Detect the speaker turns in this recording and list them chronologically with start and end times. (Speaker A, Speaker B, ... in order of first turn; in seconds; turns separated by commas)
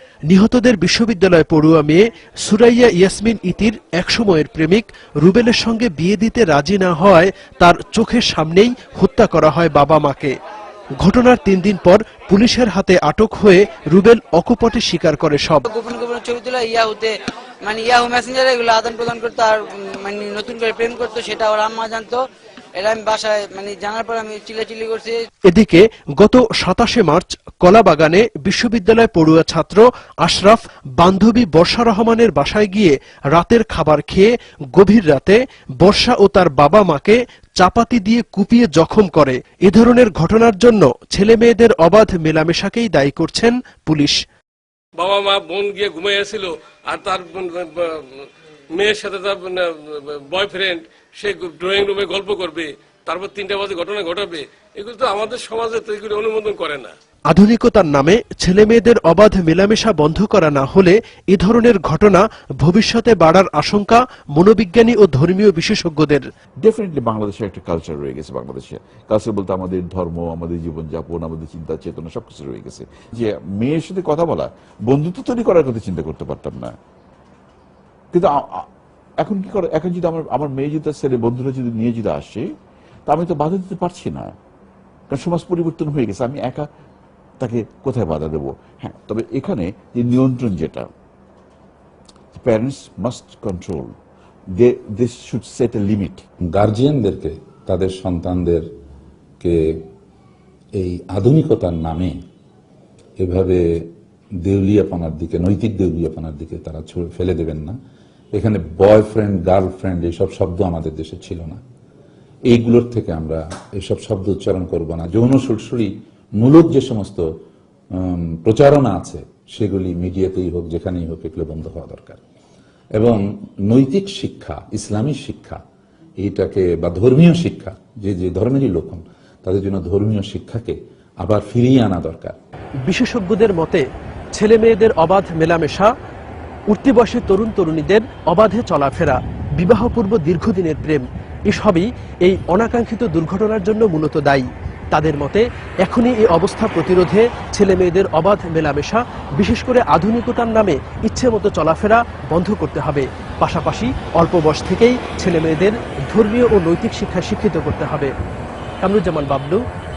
Speaker A: 0.3-10.3, Speaker A: 11.0-15.7, Speaker B: 15.7-22.2, Speaker B: 22.8-25.2, Speaker A: 25.5-44.2, Speaker C: 45.0-56.9, Speaker A: 57.3-66.2, Speaker D: 66.6-76.8, Speaker D: 78.1-78.7, Speaker D: 79.2-82.5, Speaker D: 83.1-84.3, Speaker D: 85.1-86.7, Speaker D: 87.4-90.9, Speaker D: 92.3-93.9, Speaker D: 94.6-96.2, Speaker E: 96.5-98.7, Speaker E: 99.4-99.8, Speaker E: 100.8-102.2, Speaker E: 103.2-103.9, Speaker E: 104.4-107.8, Speaker E: 108.3-111.6, Speaker E: 112.5-117.3, Speaker E: 117.9-122.2, Speaker E: 123.0-125.6, Speaker E: 126.2-132.4, Speaker A: 132.8-135.9, Speaker A: 136.7-158.1, Speaker A: 158.8-159.6